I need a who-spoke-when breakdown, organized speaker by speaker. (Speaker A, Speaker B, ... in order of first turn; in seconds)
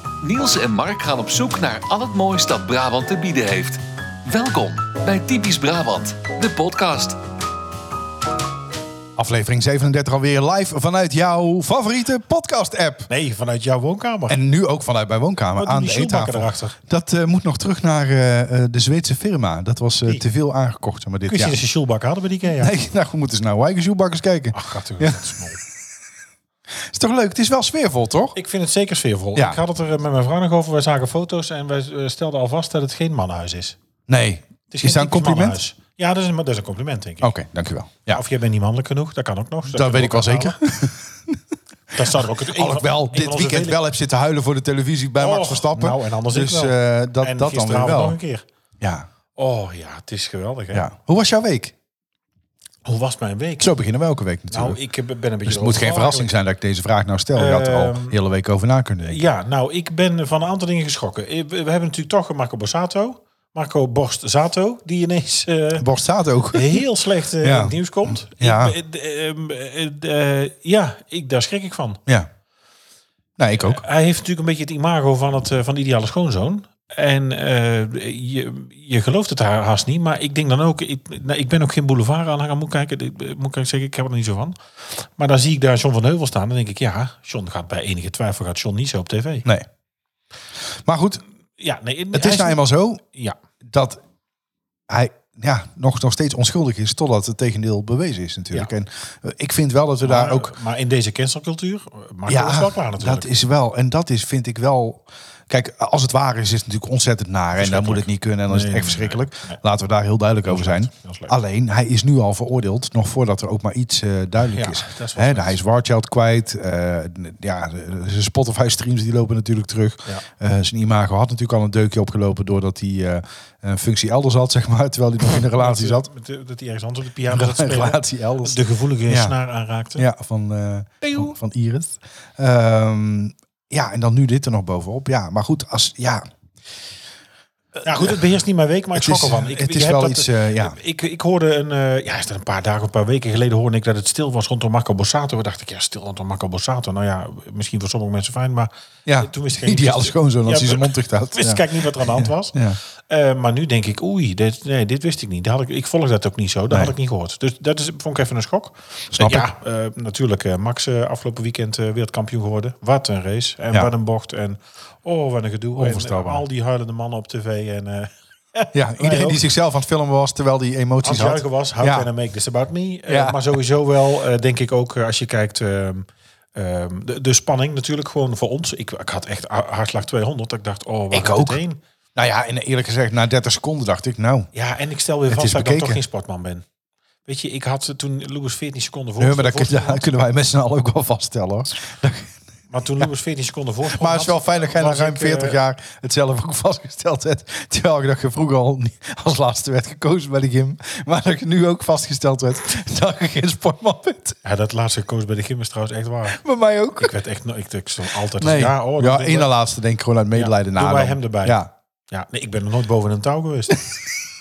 Speaker A: 0.2-7.2
Speaker B: 9.2-13.1, 14.3-21.6, 22.6-25.2, 26.8-28.4, 29.4-29.6, 34.1-35.6, 37.2-38.2, 39.7-41.4, 41.9-48.2, 48.8-49.1, 50.7-51.8, 53.6-54.8, 55.5-59.2, 65.8-66.8, 67.4-68.8, 73.4-73.8, 90.8-91.2, 92.1-93.0, 93.7-94.0, 94.9-100.5, 102.3-126.1, 127.3-129.3, 130.0-136.2, 137.8-138.2, 138.9-140.8, 149.1-152.8, 159.1-159.5, 165.8-166.4, 168.7-172.1, 173.1-173.6, 181.1-181.6, 182.2-184.5, 185.3-186.0, 189.2-192.4, 193.9-204.4, 206.3-207.1, 208.4-211.7
Speaker C: 13.1-14.4, 15.6-16.8, 21.3-22.7, 24.5-25.6, 28.4-33.8, 34.7-37.3, 38.1-40.6, 41.9-43.8, 45.2-48.5, 49.4-50.9, 52.9-53.8, 54.5-56.3, 57.4-58.2, 59.0-65.8, 66.5-72.0, 73.6-89.5, 91.6-93.4, 100.0-103.3, 107.6-109.6, 110.5-111.3, 114.5-115.6, 125.6-130.1, 131.0-131.3, 137.9-169.4, 171.0-181.8, 184.5-186.7, 187.2-190.1, 192.7-195.6, 204.4-206.4, 207.0-209.5, 210.3-211.6, 212.1-213.8